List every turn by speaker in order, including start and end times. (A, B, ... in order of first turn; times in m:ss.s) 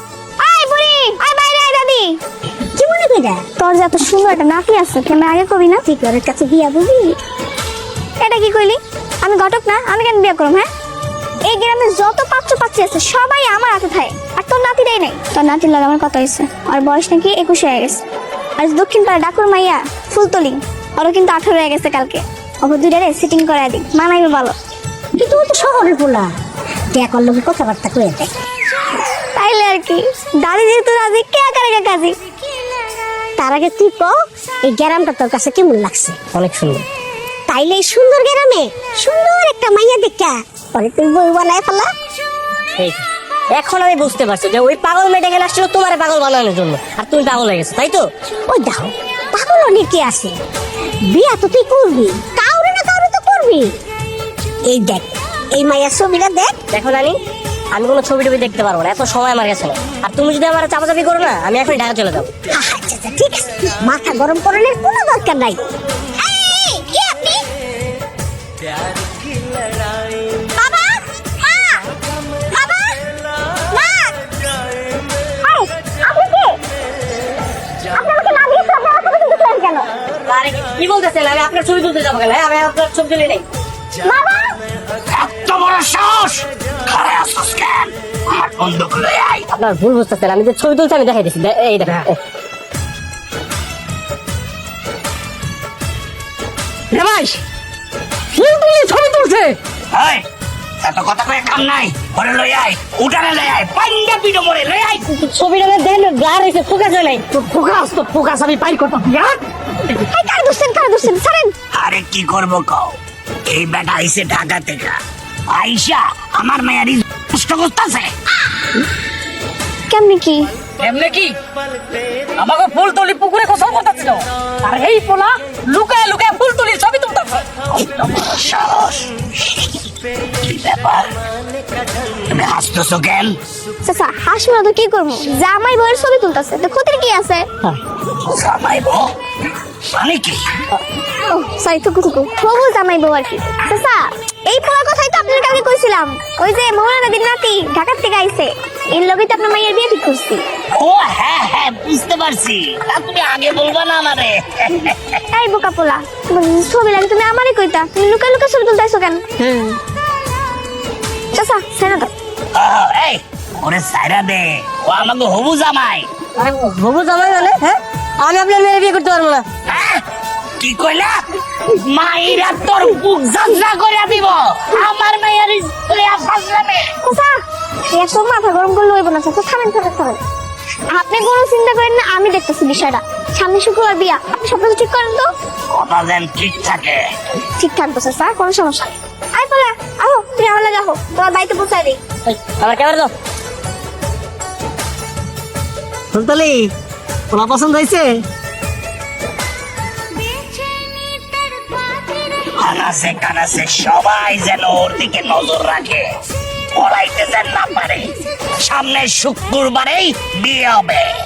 0:00.4-0:02.2 A
0:02.7-0:03.4 B
0:03.6-0:05.8 A
0:05.8-0:07.1 B
0:08.2-0:10.7 A
0:11.4-0:18.0 A
0:18.6-0:24.6 A
0:25.1-0:26.3 B
0:26.9-0:28.3 B
0:29.3-0:32.2 A
0:33.4-0:36.2 B
0:36.3-0:36.8 C
0:37.5-0:41.9 B
0:42.8-0:48.0 C
0:48.5-0:50.3 B
0:51.1-0:53.7 B
0:54.7-0:56.6 B
0:56.7-0:57.2 C
0:57.7-1:02.3 C
1:02.5-1:05.6 B
1:06.2-1:07.4 B
1:10.6-1:11.8 B
1:12.5-1:13.0 B
1:13.7-1:14.1 B
1:15.4-1:16.6 B
1:17.9-1:19.9 B
1:20.2-1:23.4 C
1:24.1-1:24.5 B
1:25.1-1:29.5 D
1:29.5-1:32.2 C
1:36.9-1:37.4 E
1:38.3-1:39.6 E
1:39.9-1:40.2 D
1:40.8-1:45.1 D
1:45.1-1:47.4 C
1:47.3-1:49.4 E
1:50.0-1:51.5 A
1:51.7-1:52.9 D
1:53.4-1:55.0 D
1:55.5-1:58.1 D
1:59.9-2:00.5 A
2:00.8-2:01.4 E
2:02.4-2:07.4 E
2:07.7-2:09.7 D
2:10.4-2:11.1 D
2:12.3-2:13.4 D
2:13.8-2:17.5 A
2:18.1-2:19.1 D
2:19.9-2:20.4 D
2:21.3-2:30.4 A
2:30.7-2:35.2 D
2:35.3-2:39.2 A
2:39.4-2:39.8 C
2:41.3-2:42.1 A
2:42.5-2:46.1 D
2:46.4-2:49.4 C
2:49.7-2:50.0 D
2:50.6-2:56.9 D
2:57.0-2:57.3 A
2:57.9-3:00.2 A
3:00.9-3:05.3 A
3:05.7-3:07.0 D
3:07.6-3:12.0 A
3:12.2-3:13.1 C
3:16.1-3:16.7 C
3:17.3-3:18.1 C
3:22.6-3:26.0 D
3:26.7-3:31.1 D